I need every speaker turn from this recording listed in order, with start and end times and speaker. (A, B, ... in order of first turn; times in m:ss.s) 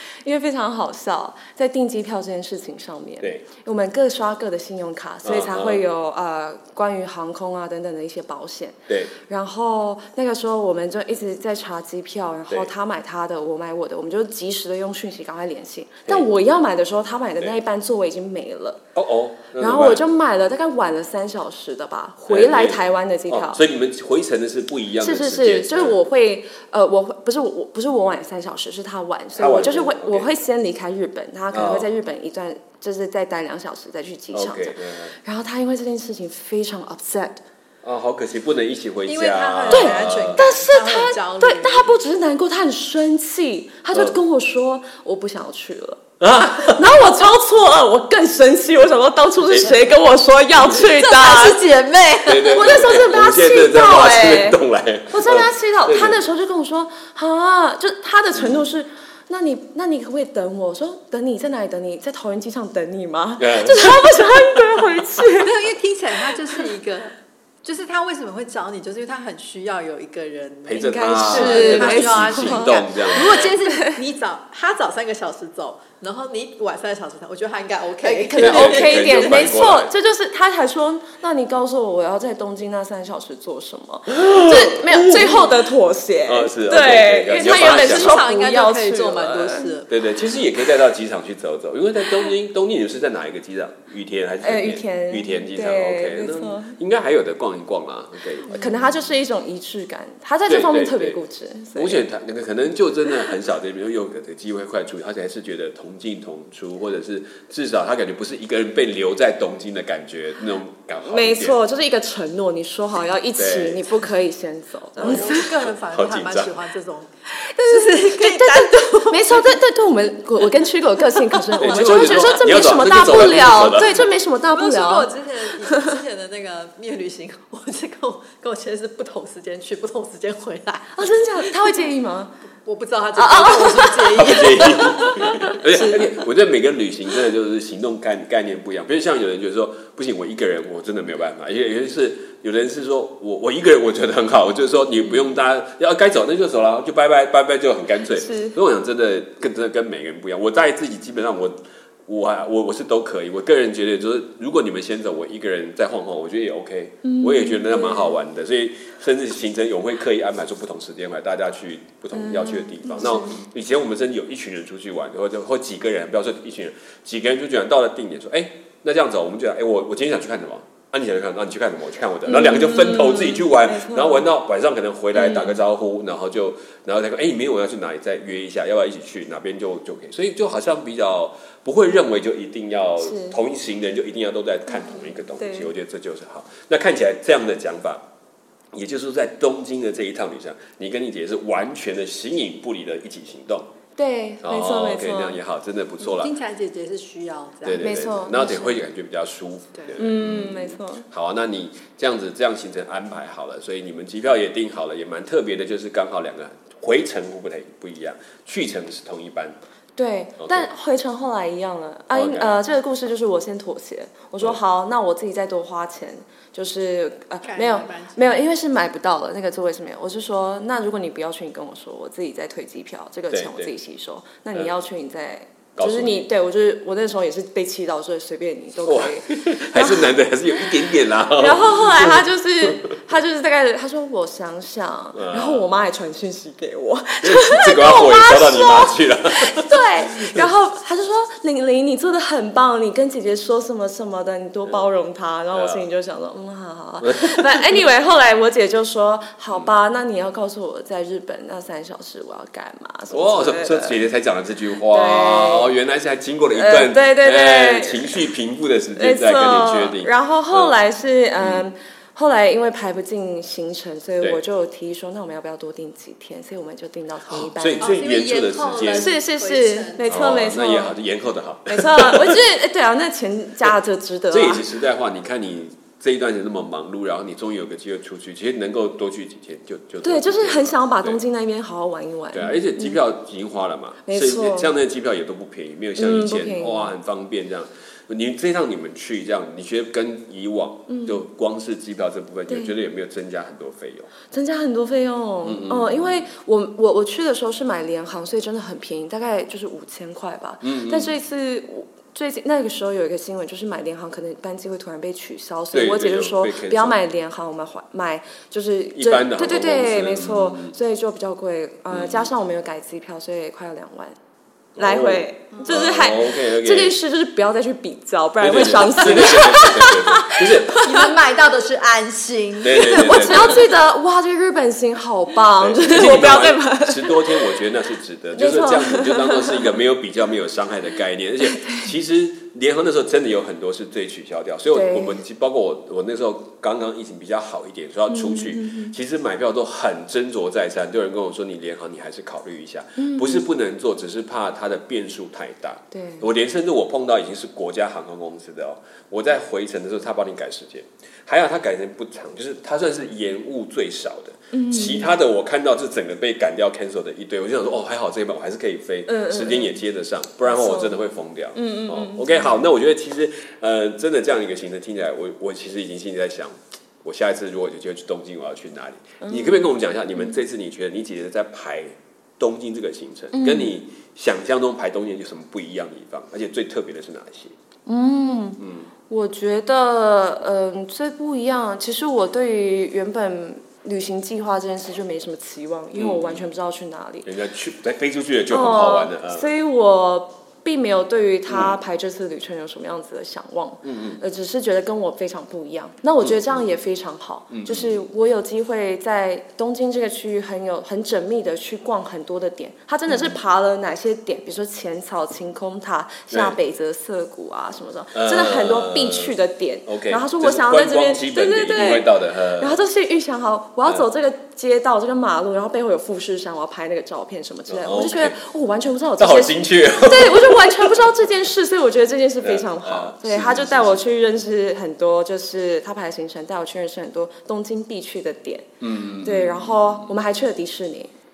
0:00.2-0:18.8 A
0:05.2-0:05.8 B
0:18.9-0:20.0 B
0:19.6-0:23.6 A
0:22.3-0:26.0 B
0:25.0-0:37.4 A
0:29.4-0:30.3 B
0:31.5-0:31.9 B
0:34.3-0:35.1 B
0:37.8-0:40.4 B
0:39.0-0:41.9 C
0:39.7-0:46.0 A
0:46.2-0:47.1 B
0:46.6-0:51.6 A
0:49.5-0:49.7 B
0:50.6-0:50.9 B
0:50.8-0:52.8 C
0:52.2-0:56.3 B
0:52.4-1:05.5 A
0:58.4-0:58.6 B
1:03.4-1:04.6 B
1:05.4-1:19.5 C
1:10.6-1:13.5 B
1:10.8-1:14.0 A
1:18.0-1:29.7 A
1:18.3-1:19.9 B
1:24.1-1:25.7 B
1:26.2-1:28.3 B
1:27.3-1:30.1 C
1:29.9-1:38.6 B
1:34.4-1:36.8 A
1:38.5-1:42.0 A
1:40.5-1:41.2 B
1:41.7-1:51.6 B
1:51.0-1:55.5 A
1:53.4-1:53.9 B
1:55.0-1:56.6 B
1:55.0-1:57.1 C
1:57.4-2:05.1 A
1:57.6-1:59.6 C
2:01.0-2:02.3 C
2:01.6-2:04.1 B
2:04.5-2:11.8 C
2:10.9-2:12.3 A
2:12.6-2:16.0 C
2:13.2-2:16.1 A
2:14.1-2:31.6 B
2:28.2-2:28.6 A
2:32.1-3:08.0 B
2:37.0-2:38.2 A
2:42.1-2:43.4 A
2:52.2-2:54.3 A
2:55.1-2:55.6 A
3:03.0-3:03.4 A
3:05.4-3:05.7 A
3:08.7-3:13.7 B
3:14.0-3:15.4 A
3:14.4-3:16.3 B
3:16.0-3:17.9 C
3:17.6-3:29.6 B
3:17.7-3:18.8 A
3:20.0-3:21.0 A
3:30.0-3:50.1 A
3:30.4-3:30.7 B
3:32.1-3:32.5 B
3:37.4-3:38.4 C
3:43.3-3:43.7 B
3:45.8-3:46.2 B
3:48.8-3:52.9 B
3:51.4-4:14.0 A
3:55.1-3:55.7 B
3:57.2-4:00.5 B
4:05.5-4:05.9 B
4:07.0-4:07.8 B
4:13.1-4:20.7 B
4:14.9-4:15.7 A
4:16.5-4:18.3 A
4:19.0-4:27.9 A
4:21.4-4:21.6 B
4:27.3-4:29.1 B
4:27.8-4:30.1 C
4:28.9-4:31.0 A
4:30.1-4:32.4 B
4:31.7-4:34.7 A
4:34.3-4:41.2 B
4:40.0-4:43.0 A
4:42.3-4:54.1 B
4:44.0-4:44.7 A
4:46.0-4:46.9 A
4:50.9-4:51.2 A
4:52.5-4:52.7 A
4:54.3-5:14.2 A
4:55.4-4:56.3 B
5:00.6-5:01.1 B
5:05.7-5:07.0 B
5:08.9-5:10.7 B
5:11.9-5:12.3 B
5:14.8-5:17.0 B
5:14.8-5:21.1 A
5:15.5-5:15.8 C
5:18.4-5:20.9 B
5:20.7-5:23.6 C
5:22.6-5:23.6 B
5:22.8-5:27.5 A
5:25.6-6:17.5 B
5:28.3-5:29.7 A
5:31.4-5:31.9 A
5:34.7-5:35.2 A
5:38.1-5:38.9 A
5:43.0-5:43.4 A
5:45.9-5:46.2 A
5:54.5-5:55.1 A
5:59.1-5:59.8 A
6:00.5-6:01.0 A
6:01.5-6:02.5 A
6:09.2-6:10.4 A
6:13.3-6:13.7 A
6:17.8-6:27.3 A
6:18.6-6:18.9 B
6:26.0-6:26.5 B
6:27.2-6:29.5 B
6:28.5-7:08.7 A
6:31.5-6:31.8 B
6:33.8-6:34.2 B
6:36.2-6:36.6 B
6:37.5-6:38.0 B
6:43.1-6:43.4 B
6:46.3-6:46.6 B
6:48.1-6:49.3 B
6:49.9-6:52.8 B
6:57.7-6:58.4 B
6:59.2-7:01.0 B
7:02.4-7:04.0 B
7:08.8-7:10.1 B
7:09.2-7:11.1 A